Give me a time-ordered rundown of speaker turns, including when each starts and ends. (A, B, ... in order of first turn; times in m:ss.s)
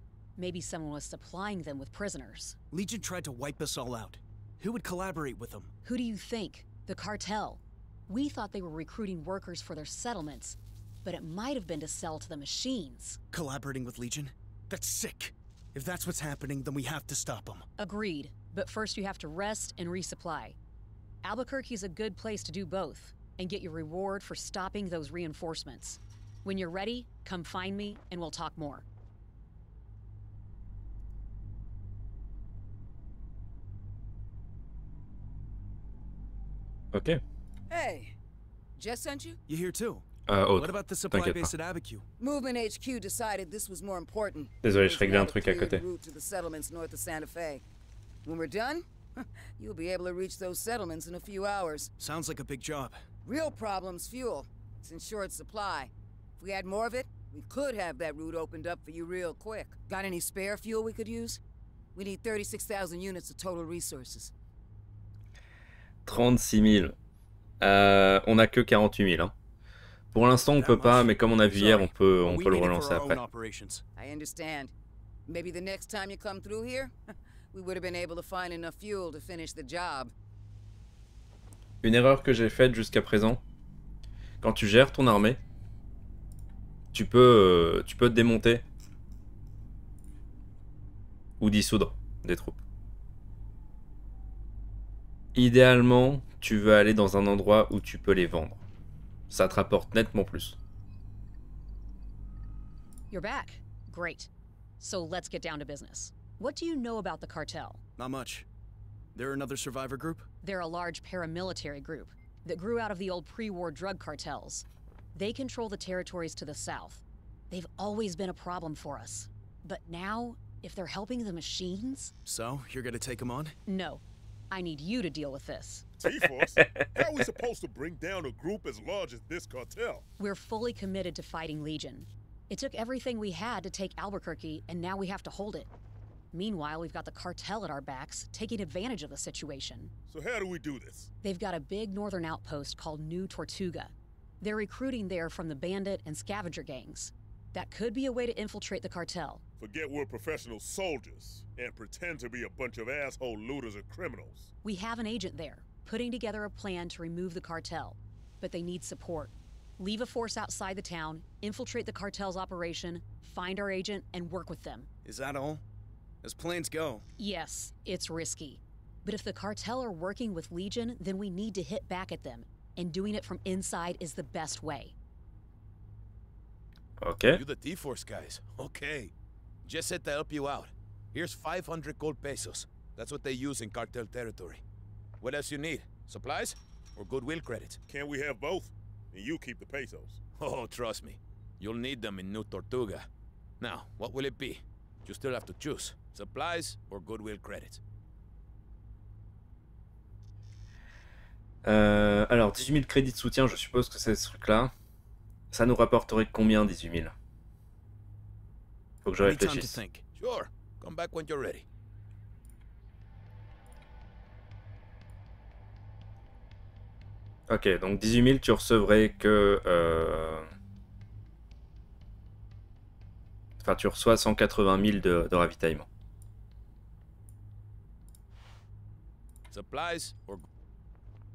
0:00.4-0:02.6 A
0:02.7-0:05.7 B
0:05.8-0:13.2 A
0:13.3-0:17.7 B
0:17.8-0:20.6 A
0:21.2-0:28.8 A
0:36.9-0:37.2 C
0:37.7-0:38.2 D
0:38.8-0:39.4 D
0:39.5-0:42.1 B
0:40.3-0:41.5 C
0:42.2-0:47.6 D
0:44.6-0:45.8 C
0:48.2-0:51.9 D
0:52.0-0:53.0 B
0:53.2-1:01.4 D
1:02.0-1:04.3 D
1:06.1-1:07.0 C
1:07.6-1:09.3 C
1:10.1-1:13.2 C
1:10.6-1:13.8 B
1:14.0-1:14.7 D
1:15.3-1:16.9 D
1:17.5-1:20.1 D
1:21.8-1:23.4 C
1:24.4-1:25.4 C
1:26.9-1:28.6 C
1:31.4-1:32.6 C
1:35.4-1:38.6 C
1:39.3-1:40.6 C
1:43.1-1:47.8 A
1:48.0-1:48.5 B
1:49.2-1:50.3 B
1:50.4-2:02.1 A
2:02.2-2:03.6 B
2:03.7-2:05.9 A
2:06.0-2:10.0 E
2:06.1-2:07.3 C
2:10.2-2:15.7 A
2:16.3-2:19.9 A
2:20.1-2:21.1 E
2:21.2-2:29.4 A
2:29.6-2:34.5 E
2:34.6-2:44.9 A
2:45.0-2:45.6 B
2:46.2-2:47.0 B
2:47.2-2:54.9 A
2:57.0-2:57.4 C
2:57.3-2:59.1 F
2:59.6-3:04.6 F
3:05.2-3:07.8 F
3:07.9-3:10.2 E
3:10.4-3:13.1 F
3:13.6-3:17.8 F
3:21.6-3:24.7 C
3:25.5-3:27.1 C
3:29.0-3:29.8 C
3:29.2-3:30.0 B
3:30.2-3:31.6 F
3:37.5-3:40.5 C
3:43.6-3:45.9 C
3:49.5-3:50.4 F